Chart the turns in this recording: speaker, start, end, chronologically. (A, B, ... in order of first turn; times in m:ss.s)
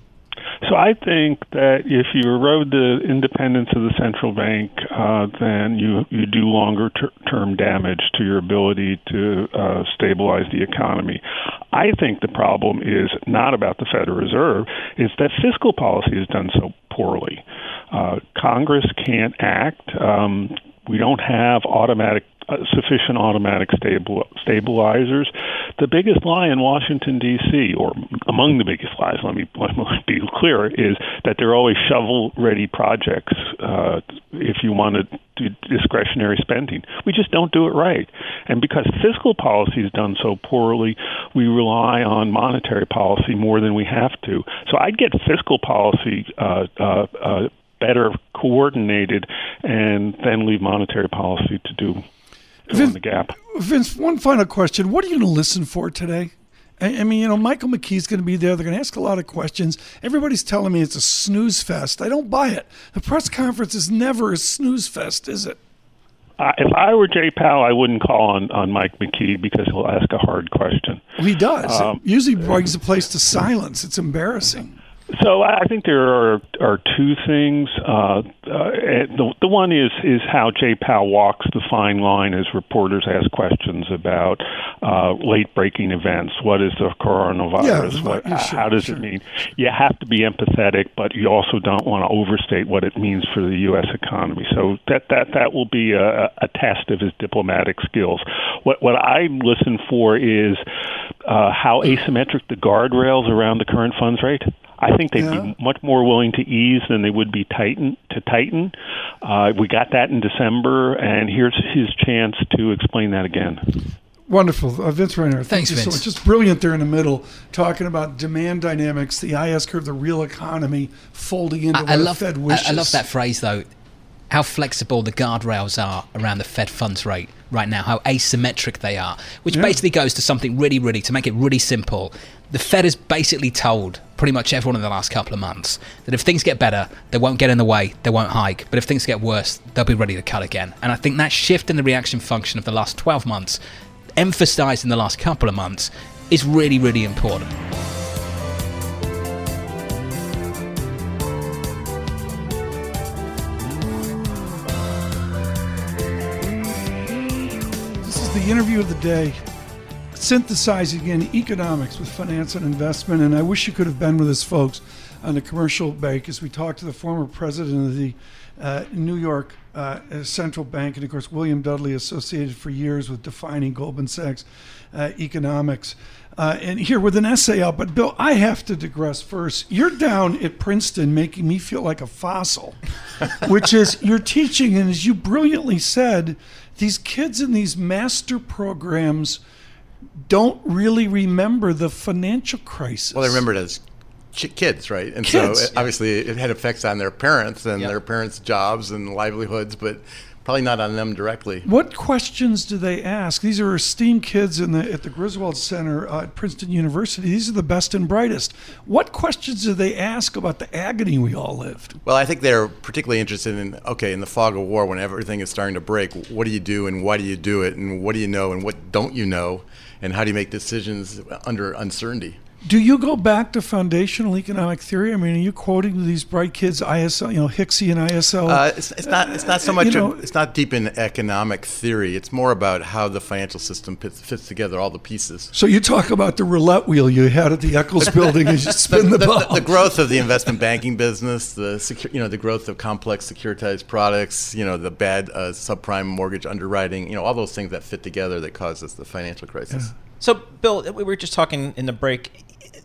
0:00.6-0:52.0 A
0:52.7-0:53.0 B
0:52.7-0:53.4 A
0:53.5-1:05.6 B
1:06.4-1:11.0 A
1:11.2-1:14.8 B
1:11.6-1:12.0 A
1:15.1-1:40.6 A
1:27.6-1:29.0 B
1:41.2-1:53.7 A
1:45.1-1:45.5 B
1:54.3-2:03.0 B
1:55.5-1:56.0 C
2:01.7-2:03.7 C
2:04.3-2:23.6 C
2:09.5-2:09.8 B
2:24.2-2:27.5 C
2:38.0-2:39.4 B
2:40.1-3:09.4 B
3:10.2-3:13.4 B
3:13.1-3:13.8 D
3:14.3-3:21.6 D
3:15.2-3:15.7 B
3:21.6-3:32.0 B
3:32.0-3:42.4 D
3:42.6-3:50.2 B
3:48.5-3:55.5 D
3:55.5-3:59.9 B
3:58.8-4:09.9 D
4:10.2-4:12.4 E